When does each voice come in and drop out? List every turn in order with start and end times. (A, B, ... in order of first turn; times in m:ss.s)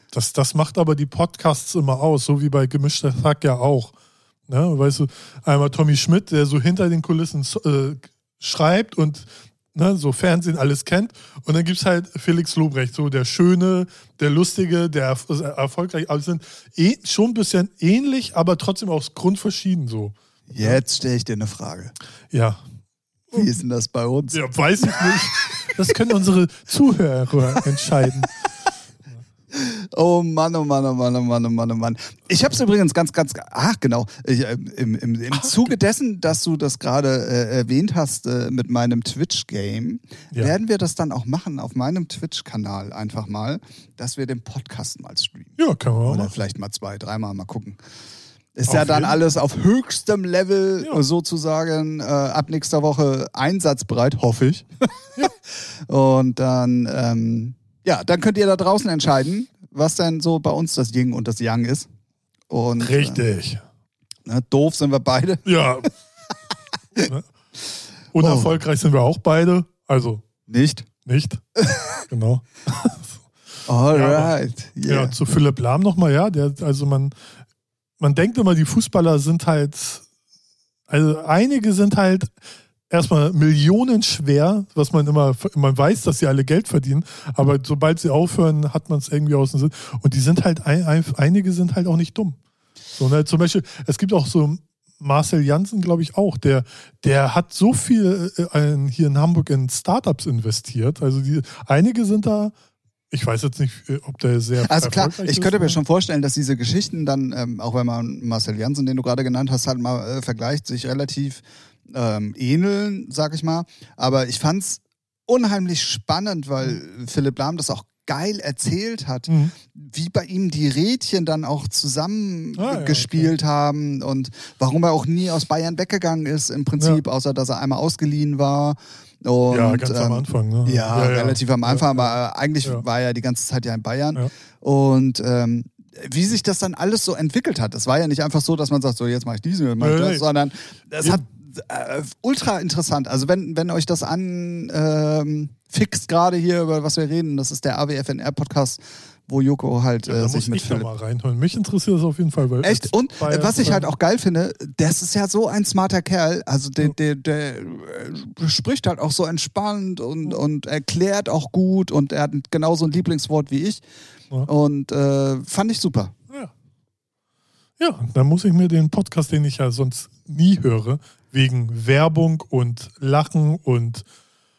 0:00.1-0:03.9 A
0:04.5-0:20.8 A
0:20.5-0:21.9 B
0:22.3-0:22.6 A
0:23.3-0:24.4 B
0:24.3-0:28.4 A
0:24.9-0:25.2 B
0:29.5-0:47.8 B
0:35.3-0:35.7 A
0:45.6-0:46.3 A
0:48.6-0:55.0 B
0:48.7-0:49.2 A
0:55.7-1:01.9 B
1:02.5-1:03.2 B
1:02.8-1:03.6 A
1:04.3-1:05.5 B
1:05.4-1:05.9 A
1:07.0-1:07.3 A
1:08.1-1:10.2 A
1:08.2-1:08.5 B
1:10.5-1:10.9 B
1:11.0-1:11.4 A
1:11.6-1:12.0 B
1:12.1-1:13.3 A
1:13.7-1:15.1 B
1:13.9-1:14.3 A
1:14.9-1:17.1 A
1:18.0-1:20.0 A
1:20.9-1:22.3 A
1:22.9-1:32.4 A
1:33.0-1:42.5 A
1:43.1-1:45.8 A
1:44.6-2:30.9 B
1:59.3-1:59.6 A
2:02.6-2:03.3 A
2:09.5-2:12.8 A
2:19.8-2:20.2 A
2:30.1-2:33.9 A
2:32.6-2:43.8 B
2:44.5-2:46.1 B
2:47.8-2:54.1 A